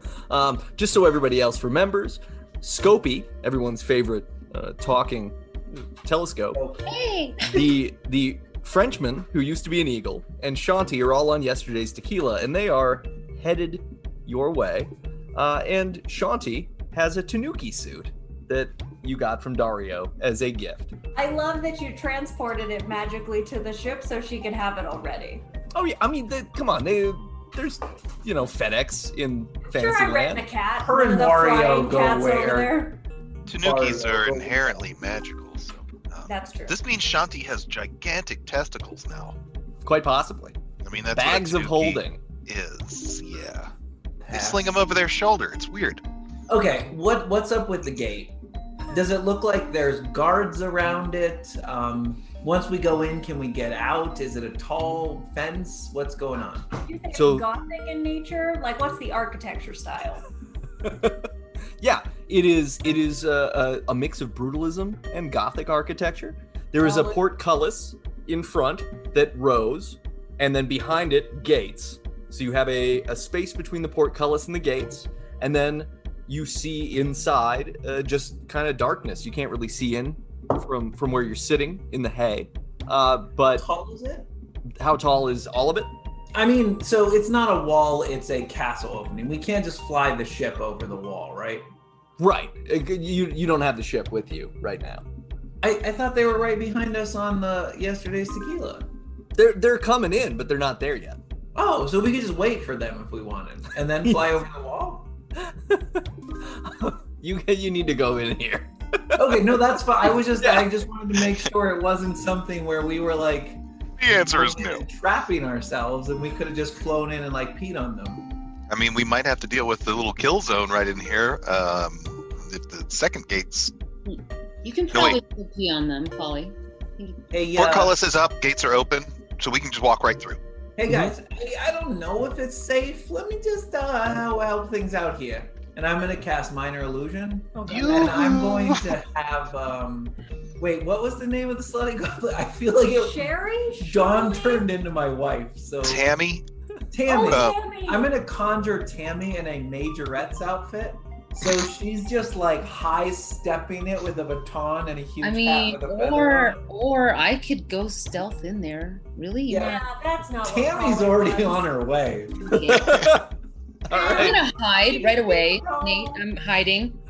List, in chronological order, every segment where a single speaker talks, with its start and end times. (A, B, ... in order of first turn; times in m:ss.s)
0:00.3-0:06.6 A
0:06.5-0:06.8 B
0:06.9-0:07.7 C
0:07.5-0:20.9 A
0:21.2-0:25.4 D
0:25.7-0:30.4 A
0:29.7-0:33.0 D
0:30.8-0:32.8 B
0:33.5-0:39.4 E
0:33.6-0:34.8 B
0:36.3-0:36.8 D
0:39.8-0:40.6 A
0:40.8-0:43.7 E
0:41.1-0:42.2 A
0:44.2-0:44.8 B
0:44.3-0:46.0 E
0:46.5-0:56.7 B
0:56.9-1:00.2 D
0:57.1-0:57.5 A
1:00.8-1:23.6 A
1:06.8-1:07.2 D
1:23.6-1:24.3 B
1:24.8-1:25.9 A
1:26.3-1:31.7 B
1:32.2-1:35.0 A
1:35.6-1:38.9 B
1:39.4-1:41.2 A
1:41.6-1:45.1 B
1:45.4-1:49.3 A
1:49.2-1:58.3 B
1:50.4-1:50.7 A
1:54.0-1:54.8 E
1:58.7-2:03.7 E
2:04.1-2:07.2 C
2:04.9-2:05.2 E
2:07.3-2:08.0 B
2:07.6-2:10.4 E
2:10.8-2:26.1 B
2:10.9-2:11.1 A
2:17.7-2:19.0 E
2:22.9-2:24.7 D
2:25.8-2:26.4 E
2:26.9-2:36.6 B
2:27.1-2:28.1 D
2:27.2-2:27.6 E
2:35.2-2:39.8 C
2:39.5-2:39.8 B
2:39.6-2:41.7 D
2:40.4-2:43.1 B
2:42.4-2:43.2 C
2:42.5-2:43.3 A
2:43.9-2:44.4 A
2:43.9-2:44.5 D
2:44.0-2:47.0 C
2:44.8-2:46.2 B